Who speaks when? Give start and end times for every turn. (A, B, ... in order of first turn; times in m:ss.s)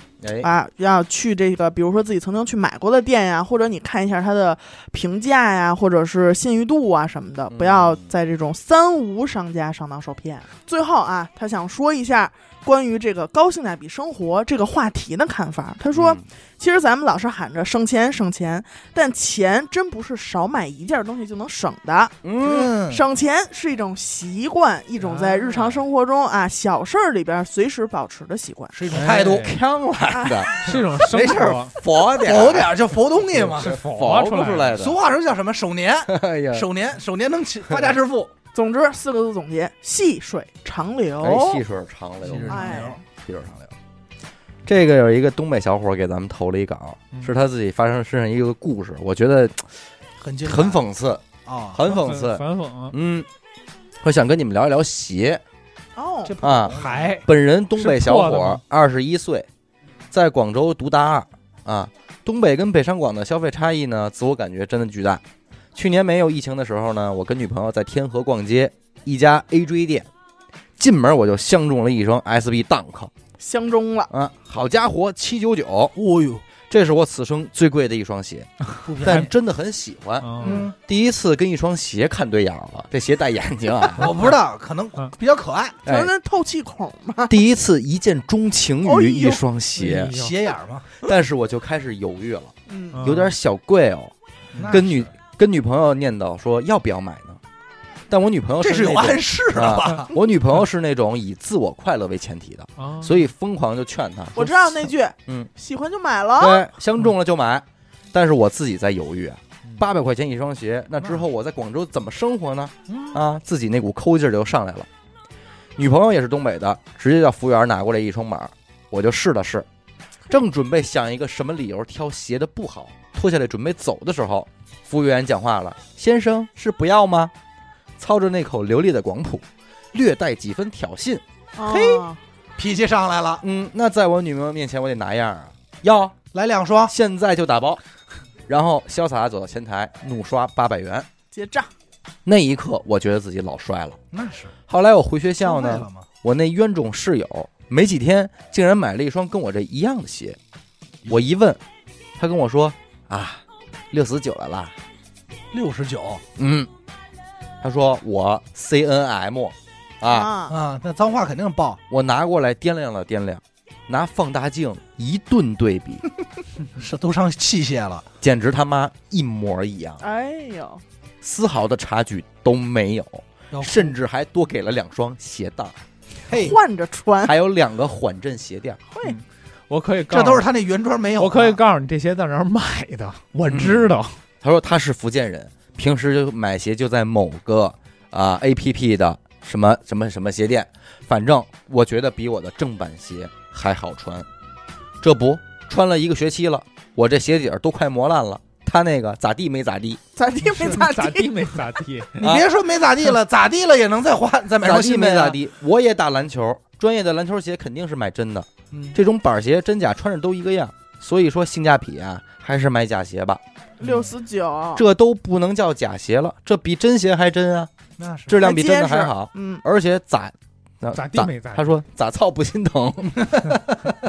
0:00.2-0:00.5 A
0:00.4-0:22.2 B
0:07.5-0:08.1 A
0:15.9-0:16.2 A
0:22.2-0:22.7 A
0:22.4-0:23.0 C
0:22.8-0:28.7 B
0:25.0-0:25.8 D
0:28.7-0:29.5 C
0:28.9-0:29.5 D
0:29.0-0:32.8 A
0:30.1-0:30.8 B
0:30.6-0:31.7 D
0:32.2-0:33.8 C
0:33.4-0:35.0 A
0:33.5-0:34.8 D
0:34.7-0:38.3 C
0:36.1-0:36.7 A
0:38.5-0:41.6 B
0:41.2-0:43.7 A
0:42.2-0:43.0 C
0:42.5-0:43.0 B
0:44.6-0:49.7 A
0:50.2-0:50.8 C
0:50.4-0:53.3 A
0:51.4-0:51.9 C
0:51.8-0:52.9 D
0:54.0-0:55.4 A
0:56.0-0:56.3 B
0:56.2-0:57.2 C
0:56.4-0:59.5 A
0:56.7-0:58.6 D
1:00.1-1:05.2 A
1:05.7-1:10.1 A
1:10.8-1:13.1 A
1:13.4-1:14.1 B
1:14.1-1:16.0 A
1:15.9-1:16.4 C
1:16.6-1:24.1 A
1:18.8-1:19.3 C
1:19.0-1:19.3 D
1:20.2-1:20.6 D
1:20.4-1:20.7 C
1:20.4-1:20.7 B
1:24.0-1:25.8 C
1:24.0-1:24.3 D
1:25.8-1:26.1 A
1:25.8-1:27.3 B
1:27.3-1:30.2 A
1:28.8-1:29.4 B
1:29.8-1:30.4 D
1:30.1-1:31.0 C
1:31.0-1:34.1 A
1:32.7-1:33.0 B
1:32.9-1:33.3 D
1:34.5-1:35.1 C
1:34.7-1:37.4 A
1:38.1-1:45.5 A
1:38.6-1:40.1 C
1:42.8-1:43.3 D
1:44.4-1:46.7 B
1:46.4-1:54.9 A
1:52.9-1:53.2 C
1:55.8-1:59.7 A
2:00.3-2:07.3 A
2:08.0-2:12.0 A
2:11.5-2:12.2 B
2:12.6-2:13.4 C
2:13.4-2:16.2 A
2:16.3-2:16.9 C
2:16.9-2:17.8 A
2:18.5-2:21.1 A
2:21.3-2:21.7 B
2:22.2-2:24.0 A
2:24.1-2:24.5 C
2:24.7-2:30.4 A
2:25.4-2:26.0 C
2:31.1-2:31.6 A
2:32.2-2:34.8 A
2:35.5-2:36.2 C
2:36.4-2:36.7 A
2:37.6-2:40.3 A
2:40.0-2:40.6 B
2:40.5-2:41.8 C
2:41.9-2:46.1 A
2:46.7-2:48.0 C
2:48.2-2:50.0 A
2:50.0-2:50.8 B
2:51.2-2:55.7 A
2:53.5-2:54.0 C
2:56.3-2:56.6 C
2:56.3-2:57.3 B
2:57.2-2:58.8 A
2:58.9-2:59.2 B
2:59.0-3:00.4 D
3:00.1-3:01.6 C
3:01.2-3:04.2 D
3:03.5-3:03.8 A
3:04.4-3:14.3 A
3:15.0-3:20.0 A
3:20.2-3:21.5 B
3:20.5-3:22.3 D
3:22.2-3:22.4 A
3:22.2-3:25.4 C
3:24.6-3:33.4 A
3:28.7-3:29.0 C
3:33.8-3:34.8 B
3:34.7-3:37.7 A
3:38.0-3:38.4 C
3:38.3-3:43.8 A
3:38.4-3:39.6 B
3:40.9-3:41.7 D